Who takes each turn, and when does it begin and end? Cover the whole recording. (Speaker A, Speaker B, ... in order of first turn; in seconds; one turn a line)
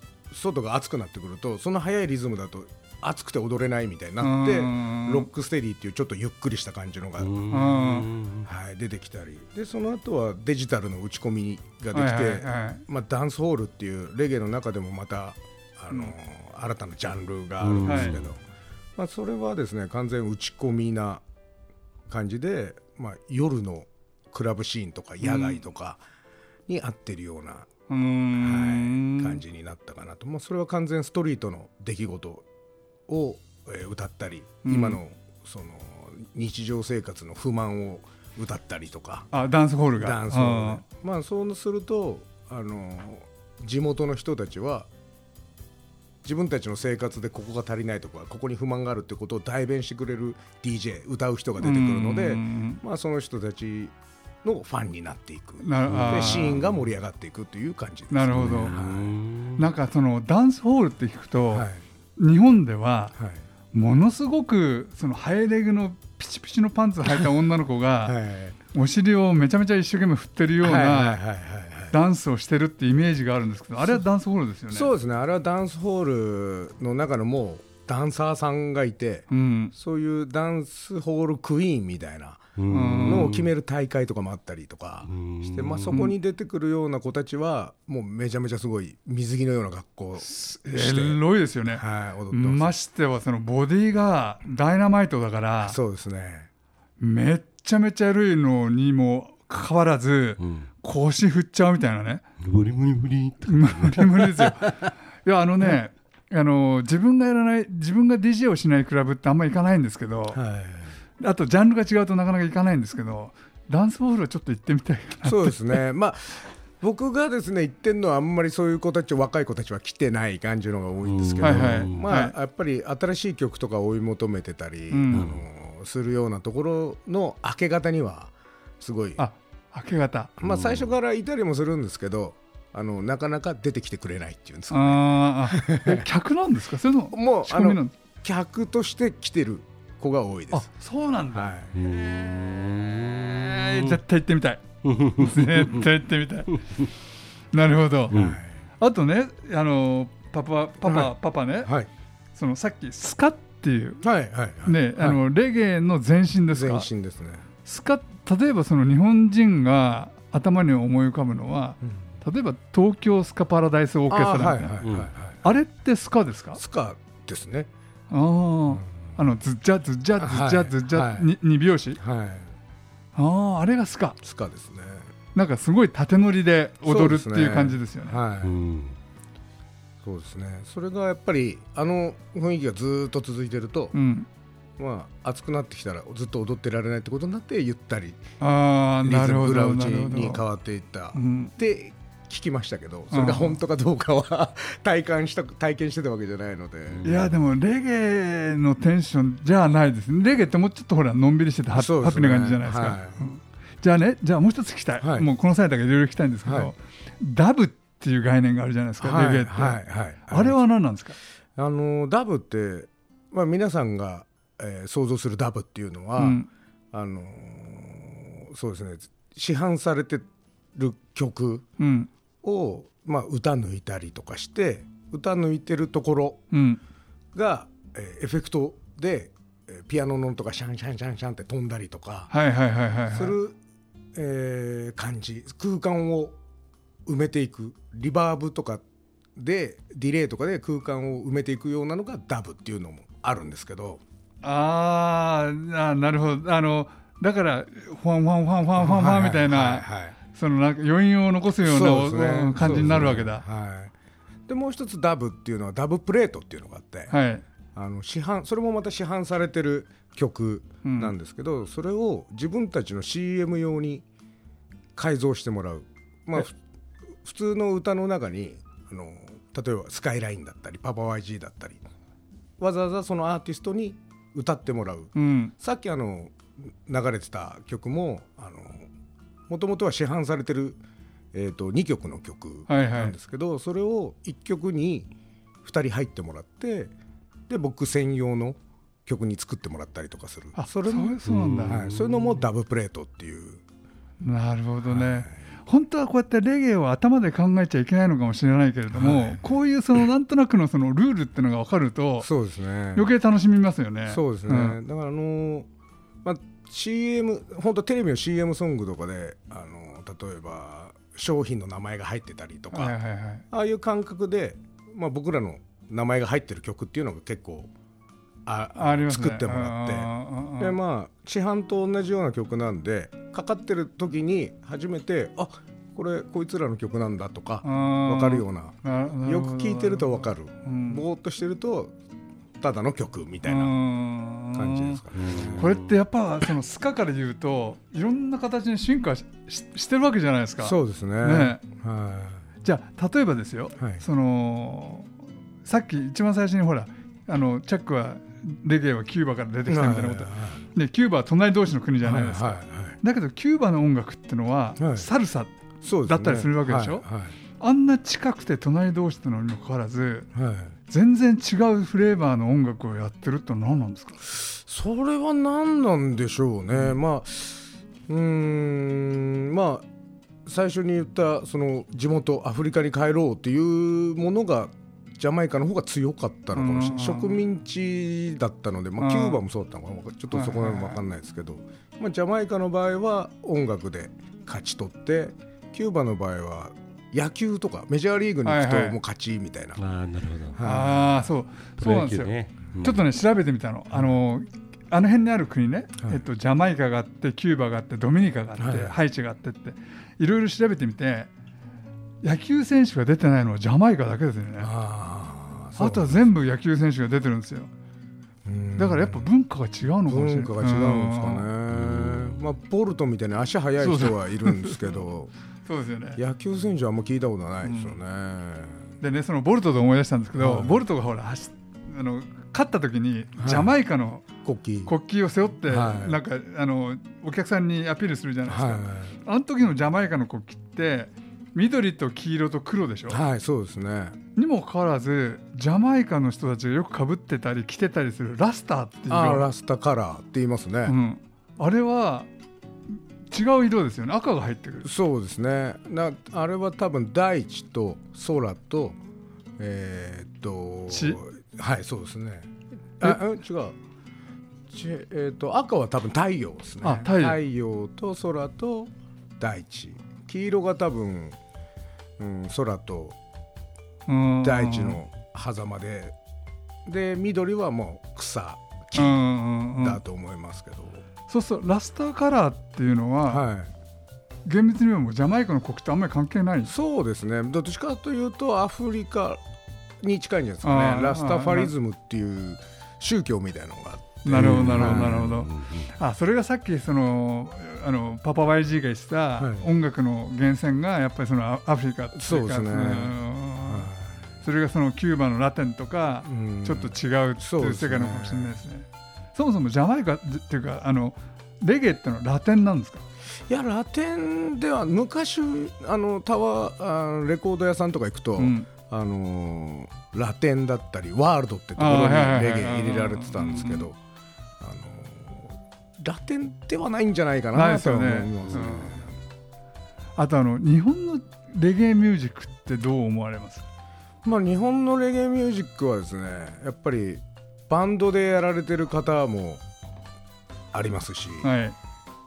Speaker A: 0.3-7.3
Speaker B: 4.2-5.3
Speaker C: 7.2-8.5
Speaker B: 7.5-8.1
Speaker A: 8.4-18.4
Speaker B: 11.9-12.8
Speaker C: 17.6-18.3
Speaker B: 17.8-18.2
Speaker A: 19.0-21.2
Speaker A: 22.1-26.0
Speaker B: 25.2-25.6
Speaker A: 26.7-27.7
Speaker B: 27.9-29.4
Speaker A: 28.4-32.5
Speaker A: 33.1-39.3
Speaker B: 34.6-35.0
Speaker B: 39.3-40.8
Speaker A: 40.0-44.9
Speaker A: 46.2-59.1
Speaker B: 51.6-52.8
Speaker B: 55.6-56.6
Speaker C: 55.9-56.8
Speaker B: 58.1-58.7
Speaker C: 58.4-59.7
Speaker B: 59.6-63.2
Speaker A: 61.5-61.8
Speaker A: 63.2-63.4
Speaker B: 63.7-68.2
Speaker A: 68.0-68.6
Speaker B: 68.7-71.2
Speaker A: 70.6-72.0
Speaker B: 71.9-74.9
Speaker A: 74.7-92.7
Speaker B: 79.3-79.7
Speaker C: 82.6-83.5
Speaker B: 82.7-83.3
Speaker C: 85.1-86.1
Speaker B: 90.2-95.8
Speaker A: 95.6-96.5
Speaker B: 97.0-102.2
Speaker C: 100.4-100.7
Speaker C: 102.4-104.9
Speaker B: 103.5-110.4
Speaker A: 110.3-110.9
Speaker B: 111.2-115.8
Speaker A: 115.2-129.2
Speaker C: 121.0-122.1
Speaker B: 121.4-122.3
Speaker B: 124.9-125.3
Speaker C: 125.1-125.4
Speaker B: 129.2-130.3
Speaker A: 130.4-136.1
Speaker C: 130.4-130.9
Speaker B: 134.7-137.9
Speaker A: 137.1-140.7
Speaker B: 140.5-141.5
Speaker A: 141.3-141.8
Speaker C: 141.7-144.0
Speaker B: 143.4-146.7
Speaker C: 144.8-145.9
Speaker C: 146.5-146.9
Speaker B: 147.5-148.2
Speaker C: 148.1-148.4
Speaker A: 148.1-148.6
Speaker B: 148.8-151.7
Speaker A: 150.8-151.9
Speaker B: 152.4-154.0
Speaker A: 154.0-155.2
Speaker B: 154.7-156.9
Speaker A: 156.5-157.5
Speaker B: 157.7-164.8
Speaker A: 164.1-165.5
Speaker C: 164.8-165.1
Speaker B: 165.4-166.6
Speaker A: 166.6-167.7
Speaker B: 168.1-172.0
Speaker A: 170.2-171.3
Speaker A: 172.0-172.5
Speaker B: 173.2-174.2
Speaker A: 174.2-175.1
Speaker B: 175.3-178.2
Speaker A: 176.8-178.6
Speaker C: 178.4-179.0
Speaker A: 180.0-183.9
Speaker B: 183.9-184.3
Speaker A: 184.8-188.2
Speaker B: 188.4-190.4
Speaker A: 189.0-197.1
Speaker B: 191.1-191.5
Speaker B: 193.1-193.6
Speaker C: 196.9-197.4
Speaker B: 197.0-211.2
Speaker A: 201.8-203.2
Speaker A: 205.0-205.3
Speaker A: 206.4-206.7
Speaker A: 209.0-210.6
Speaker A: 211.6-221.7
Speaker B: 216.2-216.5
Speaker B: 221.8-222.1
Speaker A: 222.4-226.4
Speaker B: 226.5-226.8
Speaker A: 227.3-232.3
Speaker B: 232.3-233.4
Speaker A: 233.1-233.6
Speaker A: 234.2-236.4
Speaker A: 237.1-238.8
Speaker A: 239.4-244.0
Speaker B: 244.4-253.4
Speaker A: 248.8-250.2
Speaker A: 251.6-253.9
Speaker A: 254.5-257.1
Speaker B: 257.1-257.4
Speaker A: 257.8-264.1
Speaker B: 260.8-261.1
Speaker A: 265.0-266.6
Speaker A: 267.2-271.8
Speaker A: 272.6-278.9
Speaker B: 275.1-275.5
Speaker A: 279.5-280.8
Speaker A: 281.3-286.9
Speaker B: 282.7-283.2
Speaker A: 287.5-293.6
Speaker B: 290.6-291.8
Speaker C: 291.3-292.4
Speaker B: 294.2-302.3
Speaker A: 294.9-295.4
Speaker A: 298.9-299.5
Speaker A: 302.2-303.1
Speaker B: 302.9-304.8
Speaker A: 304.1-305.7
Speaker A: 306.2-313.0
Speaker B: 312.7-313.4
Speaker A: 313.5-317.7
Speaker A: 318.5-331.9
Speaker B: 318.8-320.8
Speaker B: 327.6-331.0
Speaker A: 332.6-333.7
Speaker B: 333.4-335.0
Speaker A: 334.5-335.8
Speaker C: 335.1-336.0
Speaker B: 335.6-341.6
Speaker A: 340.6-342.5
Speaker B: 342.6-345.1
Speaker A: 343.8-344.0
Speaker B: 345.6-355.5
Speaker A: 349.7-350.6
Speaker A: 352.0-353.0
Speaker A: 354.8-355.1
Speaker A: 355.8-357.4
Speaker B: 356.1-357.1
Speaker B: 357.6-360.3
Speaker A: 360.3-360.8
Speaker B: 360.9-364.2
Speaker A: 364.3-369.9
Speaker A: 370.4-389.8
Speaker B: 376.5-377.4
Speaker B: 379.0-379.4
Speaker B: 380.3-381.0
Speaker B: 388.4-389.0
Speaker C: 389.8-390.6
Speaker A: 390.5-391.2
Speaker B: 390.6-392.3
Speaker C: 391.8-393.1
Speaker B: 392.8-401.3
Speaker A: 398.6-399.0
Speaker B: 402.2-404.7
Speaker A: 404.6-406.3
Speaker B: 405.8-407.7
Speaker A: 408.4-409.3
Speaker B: 408.8-411.5
Speaker A: 410.1-415.3
Speaker C: 411.7-412.4
Speaker B: 413.8-415.0
Speaker B: 415.7-416.2
Speaker A: 416.2-418.9
Speaker B: 417.6-417.9
Speaker B: 419.0-424.3
Speaker A: 420.4-420.8
Speaker A: 423.4-423.7
Speaker A: 424.4-424.9
Speaker B: 424.9-433.2
Speaker A: 425.7-426.2
Speaker A: 428.5-429.2
Speaker A: 433.1-434.2
Speaker B: 434.4-439.5
Speaker A: 439.1-440.9
Speaker B: 440.9-442.3
Speaker B: 442.9-444.9
Speaker A: 444.8-449.0
Speaker A: 449.6-453.8
Speaker B: 450.9-451.2
Speaker A: 454.7-461.4
Speaker B: 456.8-457.4
Speaker A: 462.2-463.2
Speaker B: 464.1-465.0
Speaker A: 464.4-466.1
Speaker A: 466.9-469.2
Speaker B: 468.9-470.0
Speaker A: 469.8-471.0
Speaker B: 471.3-473.4
Speaker A: 473.3-473.7
Speaker B: 474.4-476.7
Speaker A: 476.7-479.4
Speaker A: 480.0-485.2
Speaker B: 480.6-481.7
Speaker B: 484.2-493.9
Speaker C: 484.4-485.9
Speaker A: 489.4-489.7
Speaker A: 492.1-494.3
Speaker B: 494.4-503.0
Speaker A: 496.2-498.6
Speaker A: 503.5-514.0
Speaker B: 508.4-508.7
Speaker B: 511.8-513.9
Speaker A: 514.6-519.1
Speaker B: 517.5-519.0
Speaker B: 520.2-523.7
Speaker A: 524.2-529.6
Speaker A: 530.7-531.5
Speaker B: 531.4-531.8